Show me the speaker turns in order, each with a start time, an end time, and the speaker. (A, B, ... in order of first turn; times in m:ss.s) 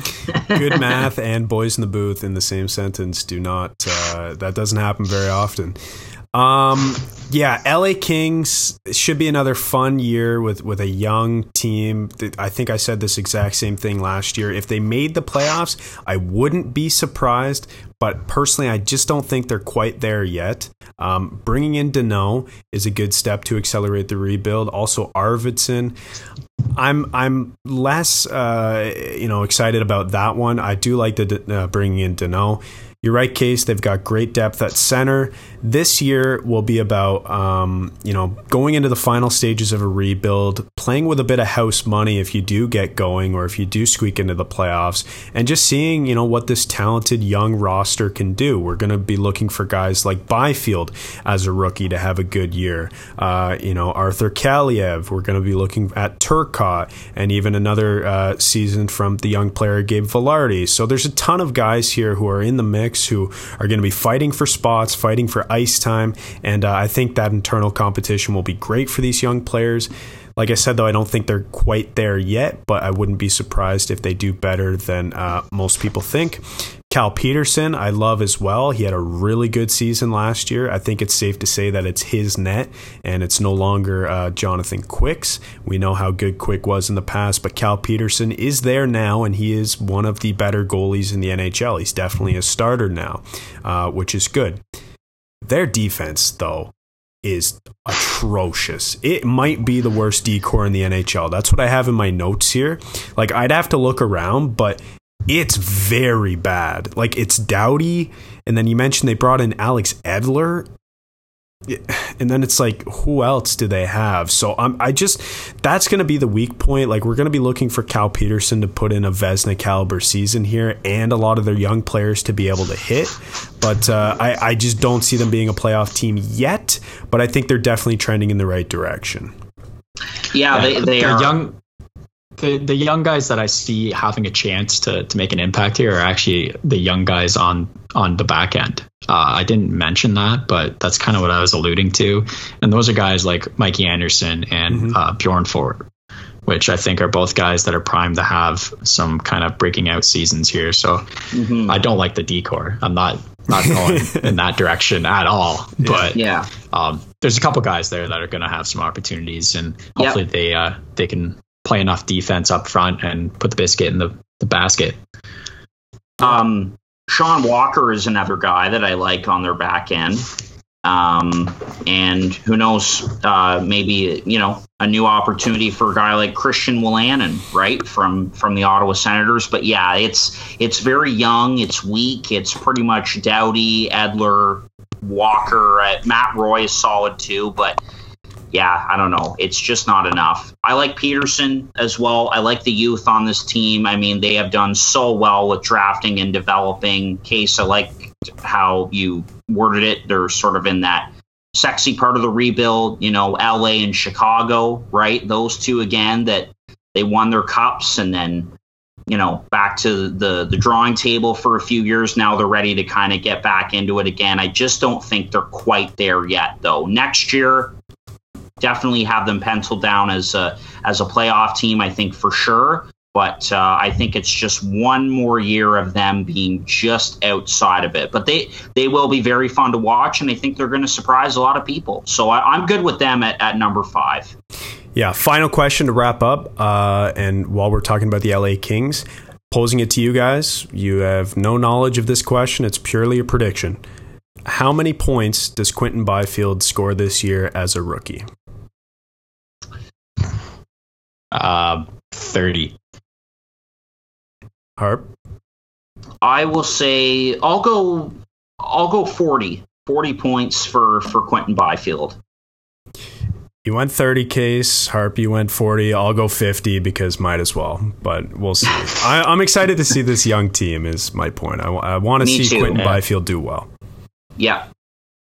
0:00.4-0:05.8 A
0:06.3-0:26.0 A
0:26.8-1:34.6 A
1:35.4-1:50.7 A
1:51.7-2:09.3 A
2:10.3-2:11.4 B
2:10.5-2:11.6 C
2:12.4-2:25.8 C
2:24.7-2:25.0 A
2:26.5-2:31.1 C
2:31.3-2:31.7 B
2:31.7-2:45.0 C
2:33.9-2:34.2 A
2:35.8-2:36.1 A
2:36.1-2:36.5 B
2:46.2-2:50.3 B
2:50.8-3:07.8 B
3:08.5-3:28.5 B
3:29.1-3:37.8 B
3:38.6-3:54.3 B
3:55.0-4:03.8 A
4:04.5-4:08.3 A
4:11.3-4:12.8 C
4:14.8-4:15.1 A
4:16.2-4:22.2 B
4:23.6-4:33.7 A
4:32.2-4:32.9 B
4:34.4-4:34.7 B